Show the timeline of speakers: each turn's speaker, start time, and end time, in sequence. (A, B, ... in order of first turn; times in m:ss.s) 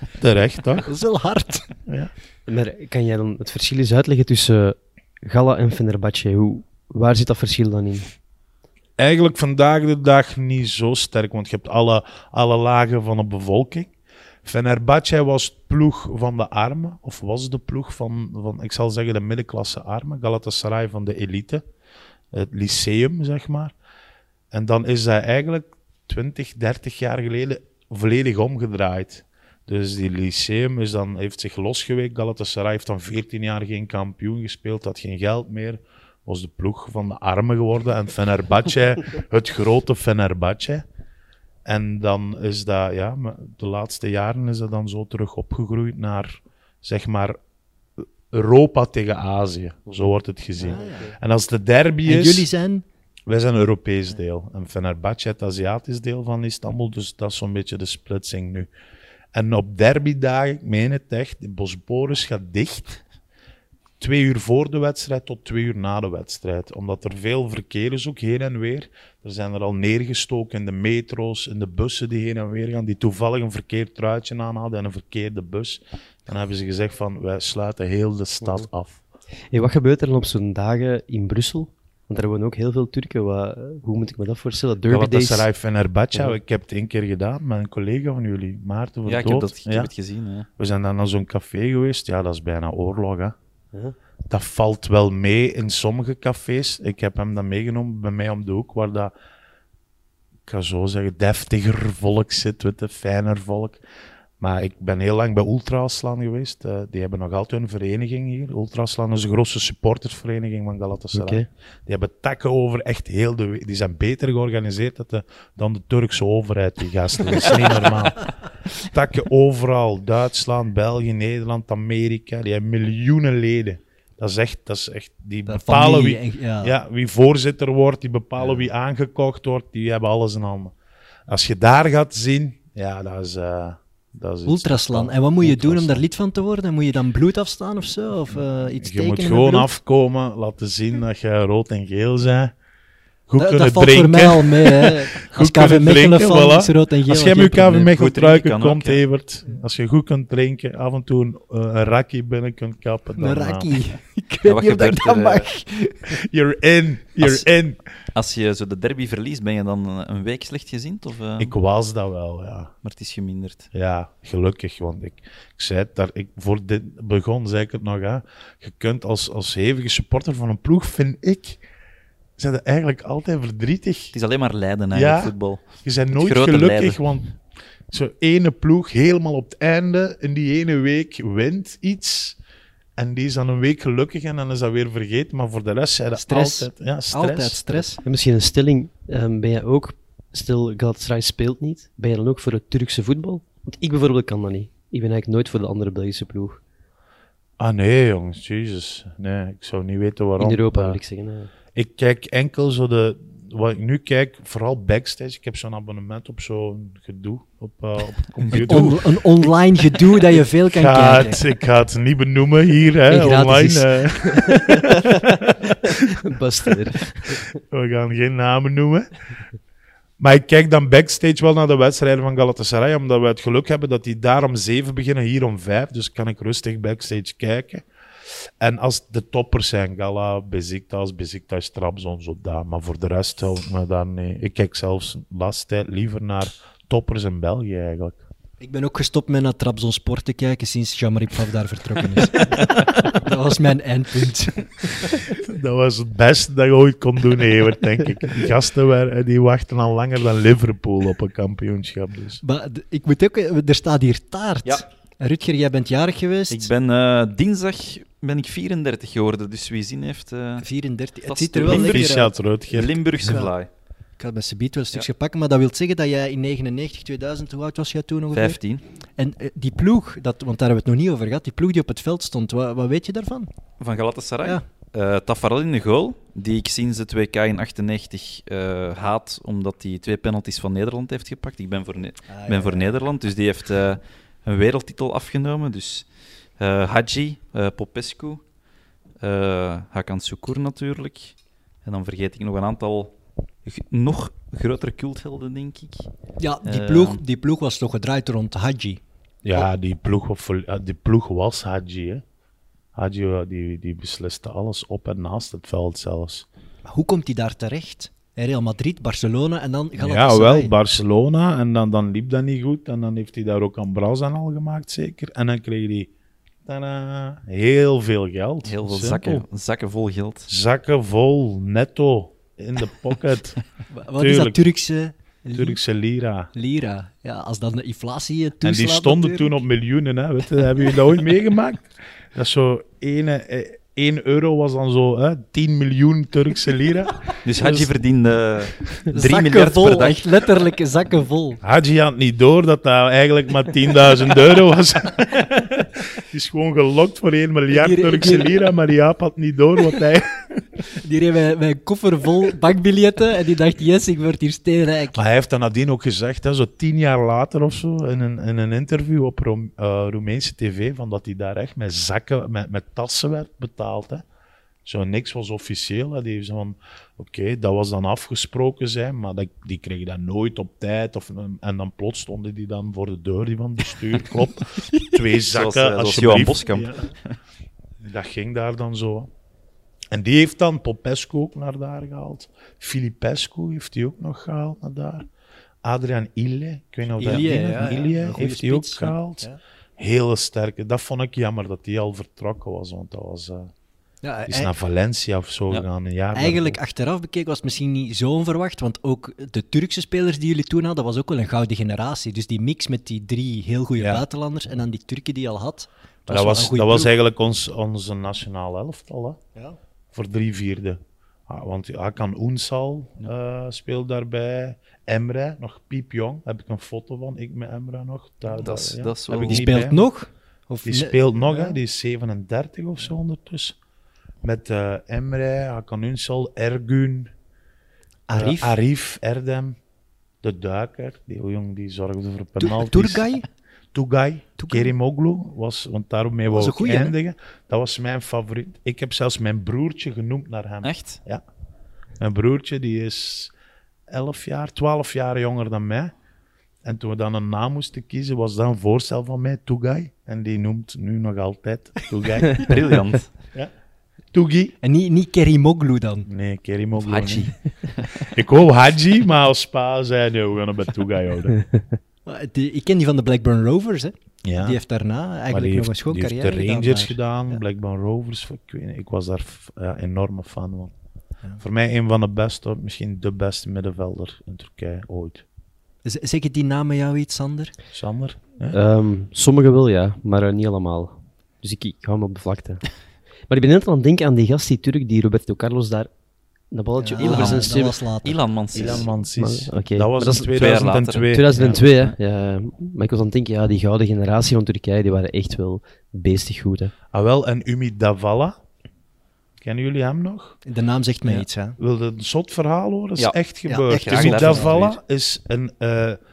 0:00.2-0:00.9 A
0:00.8-0:01.7 B
0:01.9-0:02.1 A
0:02.5-0:08.1 C
0:09.0-0:13.9 A
0:14.4-0:21.6 A
0:22.3-0:23.7 A
0:24.5-0:40.8 A
0:41.6-0:47.4 A
0:48.0-0:52.5 A
0:50.6-0:51.1 C
0:50.6-0:51.1 B
0:52.0-0:52.8 B
0:53.3-0:58.7 A
0:59.3-1:03.0 A
1:04.0-1:19.0 A
1:19.5-1:25.5 C
1:24.8-1:29.9 A
1:29.0-1:30.5 D
1:30.6-1:33.3 A
1:34.3-1:39.1 A
1:40.4-1:43.8 A
1:44.4-2:10.7 A
1:51.1-1:51.4 C
2:05.5-2:06.8 B
2:11.3-2:16.0 A
2:14.4-2:19.7 B
2:18.3-2:22.5 A
2:23.3-2:33.7 A
2:23.4-2:27.8 B
2:27.7-2:29.0 D
2:33.2-2:36.2 B
2:34.4-2:35.5 D
2:36.1-2:37.8 A
2:38.1-2:41.5 D
2:41.4-2:42.7 A
2:42.8-2:43.7 D
2:43.7-2:51.6 A
2:52.4-2:54.1 A
2:54.1-2:57.0 D
2:54.9-2:57.3 A
2:57.9-3:02.4 A
3:03.0-3:07.9 A
3:06.1-3:08.0 B
3:08.0-3:16.6 C
3:17.6-3:21.0 A
3:20.4-3:21.5 C
3:21.7-3:29.5 A
3:28.5-3:31.4 B
3:30.7-3:36.1 A
3:33.1-3:33.9 B
3:34.4-3:37.6 C
3:37.6-3:39.1 A
3:40.2-3:47.8 A
3:48.6-3:58.2 A
3:58.6-4:05.2 B
4:05.3-4:12.4 A
4:12.4-4:16.7 B
4:16.5-4:20.6 D
4:20.6-4:22.3 B
4:21.3-4:22.2 D
4:21.6-4:23.0 A
4:22.7-4:23.7 D
4:23.2-4:23.5 B
4:24.2-4:28.6 B
4:28.3-4:28.8 D
4:29.2-4:33.5 B
4:33.8-4:46.1 D
4:42.3-4:42.9 B
4:46.6-4:48.4 D
4:49.2-4:53.1 D
4:53.6-4:56.1 D
4:56.4-4:59.0 B
4:56.6-4:57.2 D
4:59.4-5:02.2 A
5:02.9-5:06.4 A
5:06.8-5:10.7 B
5:10.0-5:16.1 A
5:16.6-5:19.4 A
5:18.6-5:20.5 D
5:20.5-5:23.6 A
5:23.9-5:25.8 B
5:24.2-5:24.6 A
5:25.5-5:26.5 A
5:26.5-5:29.6 B
5:28.6-5:37.9 A
5:37.4-5:40.2 D
5:39.1-5:41.6 B
5:41.6-5:50.6 A
5:47.7-5:48.6 B
5:51.0-5:55.2 B
5:55.1-6:04.2 A
6:04.8-6:17.1 A
6:15.5-6:17.3 D
6:18.0-6:19.3 A
6:20.1-6:25.2 A
6:25.8-6:33.7 A
6:27.2-6:29.6 B
6:34.2-6:34.7 B
6:34.5-6:36.8 A
6:36.3-6:47.1 B
6:44.0-6:44.2 A
6:46.3-6:49.4 A
6:50.1-7:00.0 A
6:58.5-6:59.7 D
6:59.4-7:01.8 B
7:00.8-7:03.8 A
7:04.4-7:07.3 A
7:08.3-7:08.8 B
7:08.3-7:09.8 A
7:10.4-7:13.3 A
7:12.6-7:13.4 B
7:13.9-7:21.4 A
7:14.6-7:14.9 B
7:16.5-7:17.2 B
7:20.8-7:21.2 D
7:22.2-7:23.5 A
7:24.1-7:26.1 A
7:26.8-7:33.0 A
7:32.6-7:33.3 D
7:34.3-7:34.8 A
7:34.8-7:36.3 B
7:36.3-7:37.5 A
7:37.0-7:38.3 D
7:38.2-7:41.6 A
7:42.2-7:47.6 B
7:44.4-7:44.8 A
7:45.5-7:50.9 A
7:51.6-7:55.4 A
7:56.0-7:57.7 B
7:57.9-7:58.8 A
7:58.7-8:02.9 C
8:03.5-8:06.1 C
8:06.7-8:08.0 C
8:07.0-8:08.4 B
8:07.2-8:09.1 D
8:08.7-8:11.8 A
8:08.7-8:10.5 C
8:10.5-8:12.1 D
8:11.3-8:16.9 C
8:17.1-8:18.6 A
8:19.6-8:20.6 A
8:20.6-8:21.8 B
8:21.2-8:26.2 A
8:23.7-8:24.7 B
8:23.9-8:25.0 D